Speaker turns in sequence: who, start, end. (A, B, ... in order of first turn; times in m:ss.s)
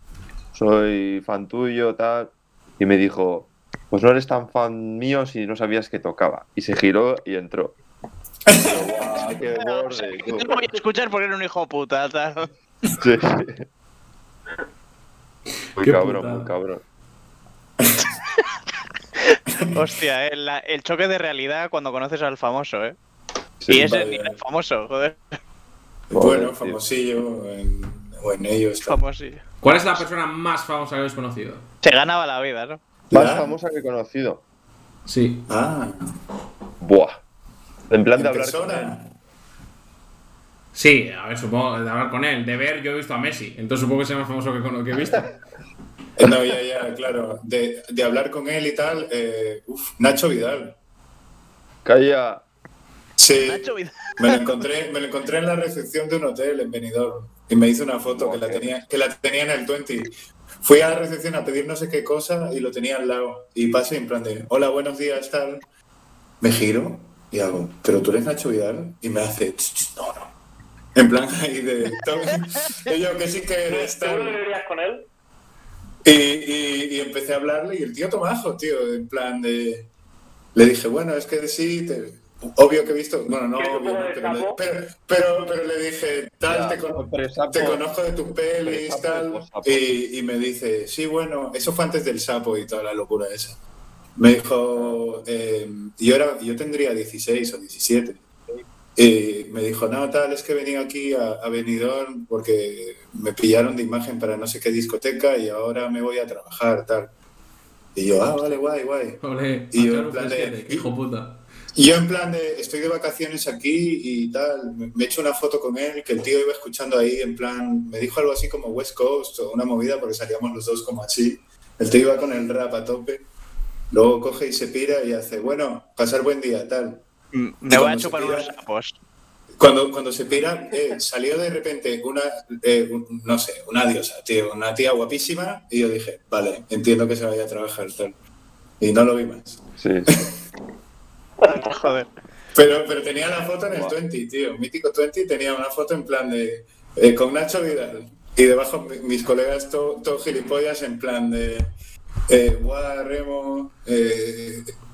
0:00.5-0:07.8 A
0:08.5-0:08.9 B
0:08.6-0:10.6 A
0:09.4-0:12.5 C
0:13.0-0:13.6 A
0:15.8-0:16.8 A
0:15.8-0:16.5 D
0:19.3-0:23.0 C
0:23.6-0:23.9 A
0:23.7-0:25.2 C
0:23.7-0:24.3 B
0:26.1-0:29.0 B
0:26.1-0:26.8 A
0:28.8-0:29.4 C
0:29.6-0:31.6 D
0:31.8-0:32.8 C
0:33.1-0:33.5 B
0:33.1-0:34.4 A
0:35.0-0:35.5 D
0:35.5-0:36.0 B
0:36.8-0:37.2 A
0:37.9-0:39.0 A
0:38.1-0:39.0 B
0:40.7-0:45.3 D
0:46.2-0:50.7 B
0:51.8-0:52.4 A
0:53.2-0:53.7 B
0:53.4-0:54.4 C
0:54.2-1:05.6 B
0:58.0-0:58.8 A
1:06.4-1:10.3 B
1:10.9-1:14.4 B
1:13.7-1:15.0 E
1:16.0-1:19.9 B
1:20.5-1:33.6 B
1:23.6-1:24.6 E
1:26.4-1:27.8 A
1:28.6-1:29.9 A
1:34.2-1:38.2 B
1:39.0-1:47.1 B
1:47.9-1:49.2 B
1:49.2-1:51.4 D
1:49.7-1:50.9 B
1:51.7-2:03.2 B
2:03.9-2:07.0 B
2:07.3-2:09.0 C
2:07.7-2:08.5 B
2:09.6-2:18.1 B
2:18.8-2:19.6 B
2:19.8-2:20.1 A
2:21.4-2:21.7 E
2:21.5-2:22.1 C
2:22.5-2:31.7 B
2:23.7-2:24.0 A
2:32.3-2:34.7 B